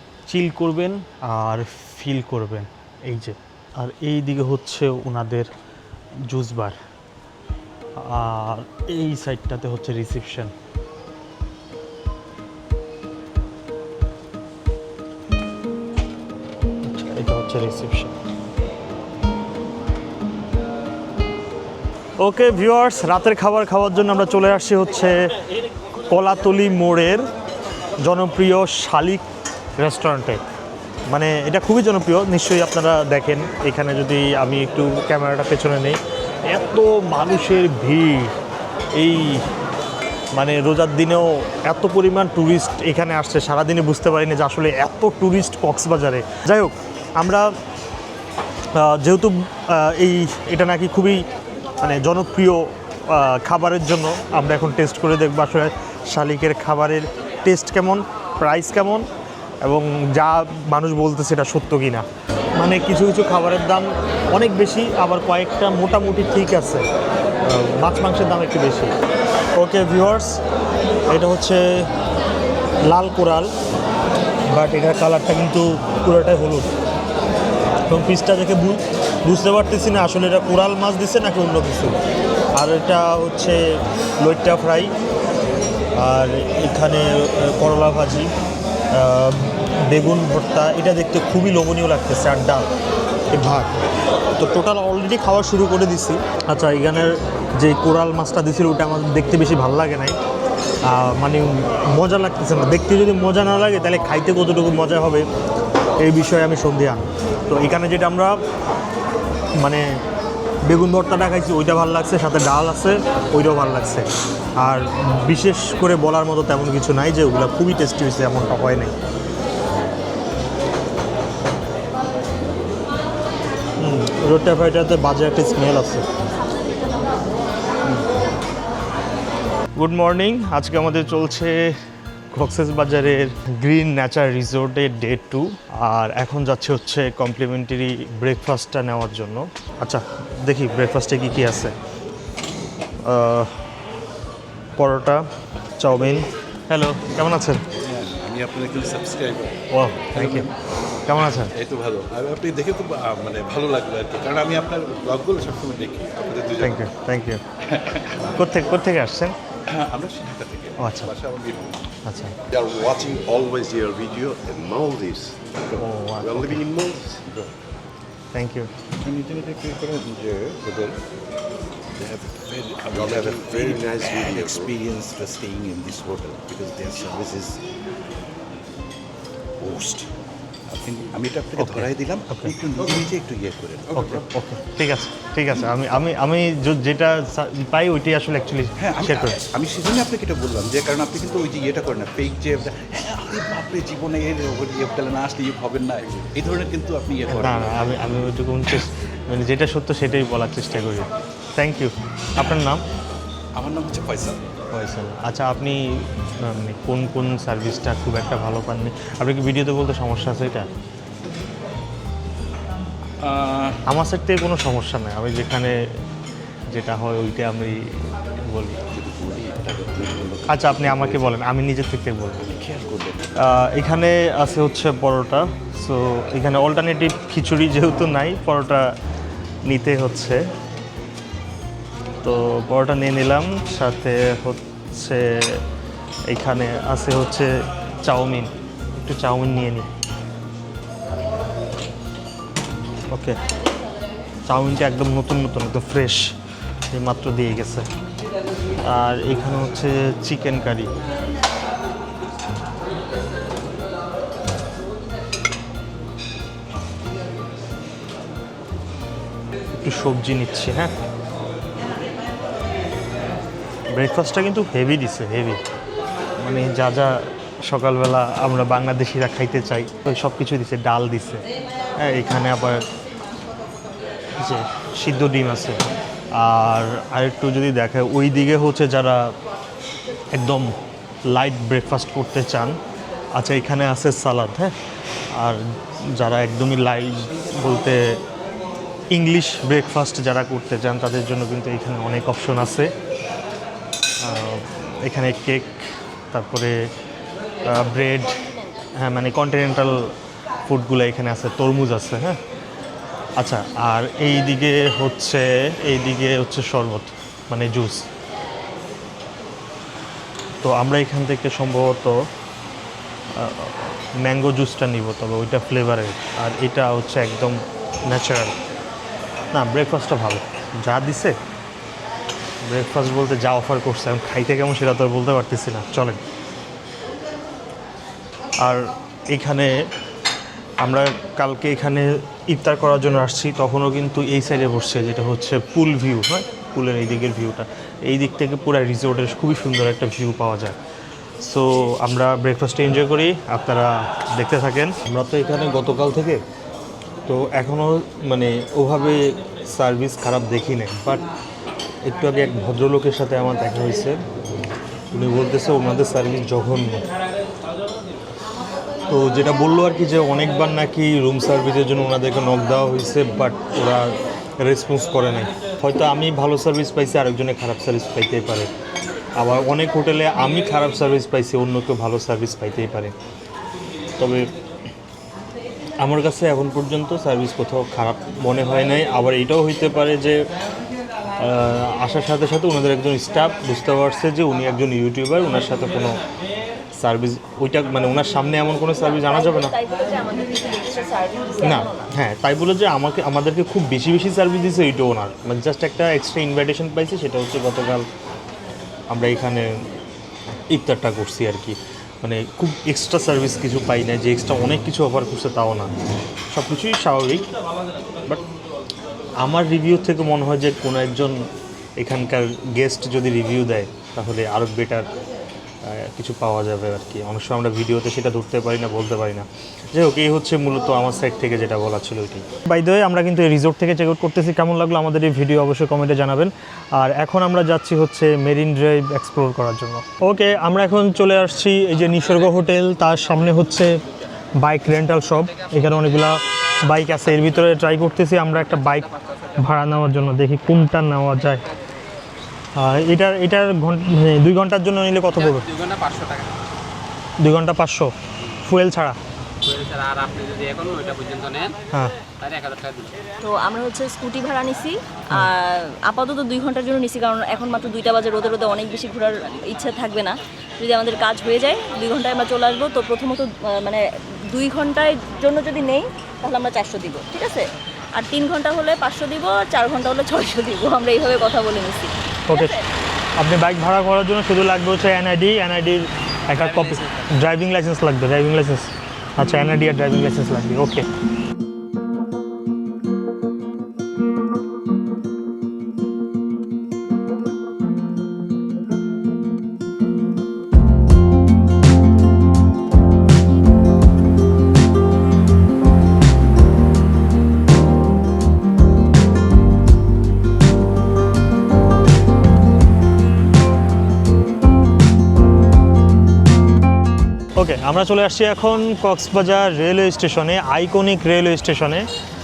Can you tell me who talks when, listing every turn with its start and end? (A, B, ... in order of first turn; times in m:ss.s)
0:00.3-0:05.5 A
0:06.3-0:06.8 A
0:08.0-0:10.5 A
0:16.8-0:18.1 A
0:22.2-0:25.2 A
0:26.1-0:27.3 A
0:28.0-0:29.2 A
0:29.8-0:30.4 A
0:31.1-0:38.4 A
0:39.0-0:39.4 A
0:40.4-0:47.5 A
0:48.7-0:51.2 A
0:51.8-0:59.1 A
0:59.6-1:06.9 A
1:07.5-1:08.9 A
1:09.6-1:10.4 A
1:11.1-1:11.9 A
1:12.9-1:13.5 A
1:14.5-1:16.7 A
1:17.9-1:22.0 A
1:22.6-1:23.6 A
1:24.2-1:24.9 A
1:26.0-1:28.3 A
1:28.9-1:32.7 A
1:33.3-1:33.7 A
1:34.4-1:40.2 A
1:40.9-1:45.2 A
1:46.0-1:48.4 A
1:49.6-1:49.9 A
1:50.7-1:54.1 A
1:54.6-1:59.0 A
2:03.8-2:06.1 A
2:09.8-2:11.8 A
2:12.3-2:21.8 A
2:23.0-2:23.6 A
2:24.8-2:25.3 A
2:25.8-2:27.6 A
2:27.7-2:30.5 B
2:29.7-2:30.5 A
2:31.1-2:31.5 A
2:31.1-2:36.9 B
2:36.6-2:37.4 A
2:37.7-2:38.3 B
2:38.4-2:39.4 A
2:39.7-2:41.8 B
2:40.8-2:41.1 A
2:42.0-2:42.4 A
2:42.5-2:47.5 C
2:45.8-2:46.6 A
2:48.3-2:48.7 A
2:49.0-2:51.0 B
2:52.0-2:57.6 B
2:52.9-2:54.7 C
2:59.6-3:00.1 B
3:00.7-3:04.3 B
3:01.6-3:02.5 A
3:04.0-3:09.4 A
3:08.8-3:18.2 B
3:17.3-3:22.8 A
3:23.6-3:24.4 B
3:24.7-3:25.8 A
3:26.4-3:30.7 A
3:33.2-3:33.8 B
3:33.9-3:35.8 A
3:36.7-3:37.8 A
3:38.4-3:38.8 A
3:38.9-3:41.4 B
3:40.5-3:42.4 A
3:42.4-3:43.3 B
3:43.4-3:48.9 A
3:49.6-3:50.4 A
3:52.2-3:55.6 A
3:56.3-3:57.5 A
3:58.0-3:58.5 A
3:59.1-3:59.9 A
4:03.1-4:03.4 A
4:04.5-4:06.3 A
4:06.9-4:07.9 A
4:08.9-4:10.9 A
4:19.7-4:20.9 A
4:23.9-4:25.6 A
4:26.4-4:31.4 A
4:32.0-4:32.8 A
4:34.4-4:35.8 A
4:36.4-4:39.3 A
4:40.3-4:40.7 A
4:41.3-4:42.8 A
4:43.4-4:44.7 A
4:45.4-4:45.6 A
4:46.1-4:48.2 A
4:49.1-4:52.9 A
4:54.2-4:55.8 A
4:56.3-4:56.8 A
4:57.7-4:58.4 A
4:59.0-5:00.0 A
5:00.6-5:02.4 A
5:03.4-5:08.0 A
5:10.6-5:12.2 A
5:13.4-5:18.6 A
5:19.5-5:21.4 A
5:22.6-5:26.2 A
5:28.6-5:29.7 A
5:30.8-5:40.8 A
5:41.4-5:46.4 A
5:47.3-5:51.2 A
5:52.0-5:54.2 A
5:55.1-5:57.0 A
5:59.1-6:08.7 A
6:09.4-6:13.1 A
6:14.2-6:14.5 A
6:16.0-6:20.4 A
6:21.4-6:26.2 A
6:27.0-6:29.7 A
6:29.1-6:31.9 D
6:31.6-6:38.1 A
6:39.1-6:39.7 A
6:40.7-6:45.9 A
6:46.5-6:47.5 A
6:49.4-6:51.4 A
6:52.0-6:55.1 A
6:55.8-7:14.0 A
7:14.6-7:21.6 A
7:22.8-7:25.6 A
7:25.4-7:26.6 E
7:27.4-7:28.1 A
7:28.6-7:29.2 A
7:29.6-7:31.8 E
7:32.4-7:33.2 E
7:33.4-7:52.9 D
7:53.4-8:01.1 A
7:56.6-7:57.3 E
8:27.6-8:32.1 A